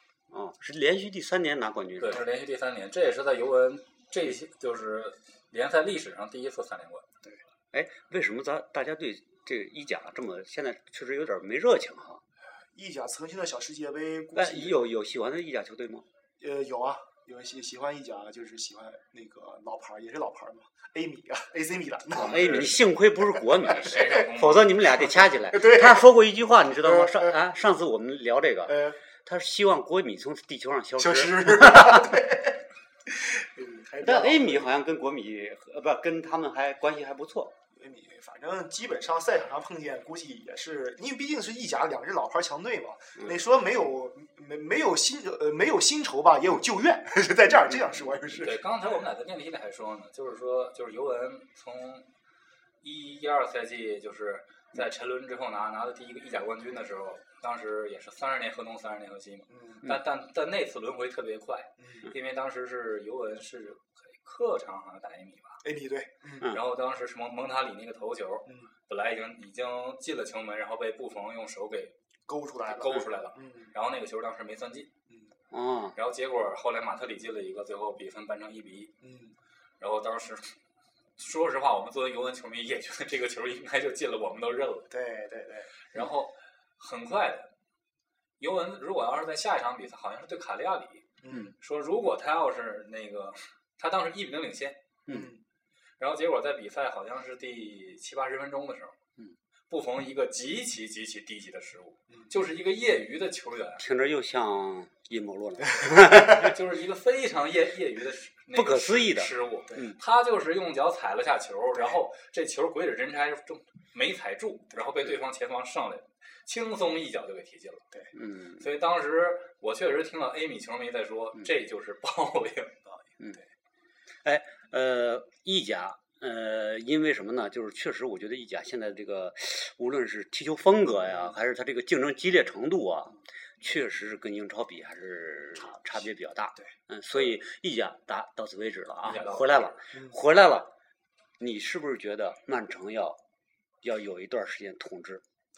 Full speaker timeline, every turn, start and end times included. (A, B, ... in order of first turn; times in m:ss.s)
0:00.3-0:02.2 A
0:02.0-0:07.0 B
0:07.7-0:12.2 A
0:12.7-0:14.9 C
0:14.3-0:16.0 A
0:16.4-0:22.7 C
0:22.1-0:32.2 A
0:22.2-0:22.8 B
0:23.6-0:24.2 C
0:23.8-0:25.3 B
0:25.5-0:26.0 C
0:26.8-0:27.3 C
0:28.6-0:29.0 C
0:31.0-0:34.7 C
0:34.0-0:37.5 A
0:37.8-0:48.6 C
0:48.4-0:52.1 B
0:52.8-1:05.6 B
0:59.5-0:59.8 C
1:05.6-1:06.5 C
1:06.4-1:11.9 B
1:12.3-1:13.7 C
1:12.6-1:14.9 B
1:15.5-1:15.9 A
1:15.9-1:18.9 B
1:19.0-1:19.3 C
1:19.8-1:20.6 B
1:21.2-1:24.9 B
1:24.9-1:25.7 C
1:25.9-1:27.5 B
1:28.4-1:34.8 B
1:31.2-1:31.5 C
1:35.1-1:35.4 C
1:36.0-1:39.0 B
1:39.7-1:43.8 B
1:43.8-1:46.6 A
1:45.9-1:57.9 B
1:48.5-1:50.0 A
1:58.1-1:58.6 A
1:58.6-2:03.0 B
2:04.2-2:20.7 A
2:19.0-2:19.7 B
2:21.4-2:23.2 A
2:23.8-2:25.2 A